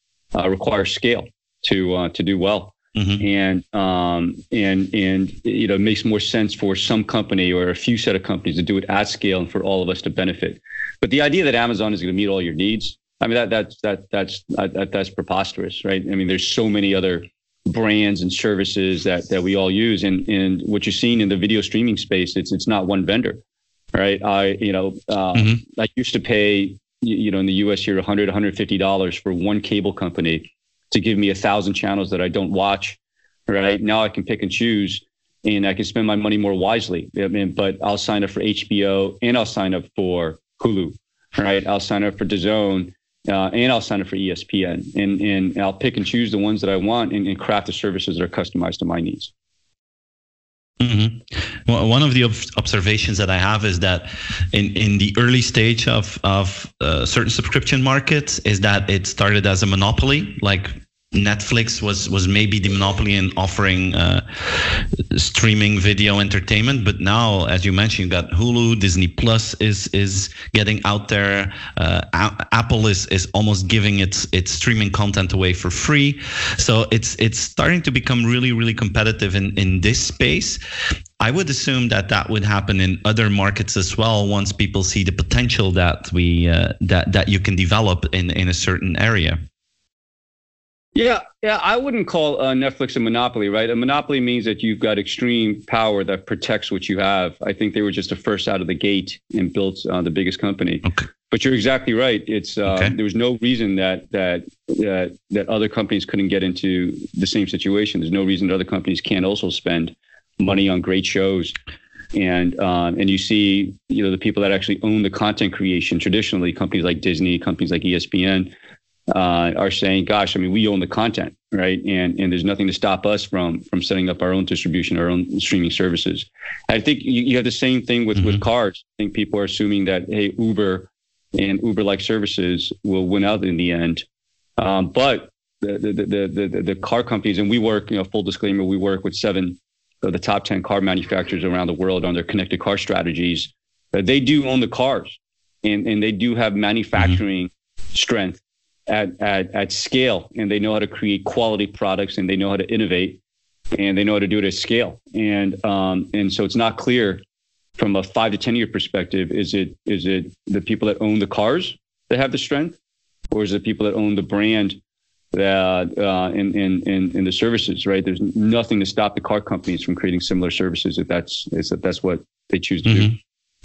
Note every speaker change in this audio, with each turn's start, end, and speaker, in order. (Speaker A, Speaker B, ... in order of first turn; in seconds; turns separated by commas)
Speaker A: 0.3-23.4, Speaker B: 2.9-3.2, Speaker A: 23.9-49.3, Speaker B: 50.8-80.6, Speaker B: 81.2-89.4, Speaker A: 91.0-111.5, Speaker B: 102.7-102.9, Speaker A: 112.1-118.5, Speaker A: 119.1-134.0, Speaker A: 134.6-153.2, Speaker A: 153.7-157.2, Speaker A: 157.8-162.8, Speaker A: 163.3-164.8, Speaker A: 165.3-173.2, Speaker B: 172.8-173.1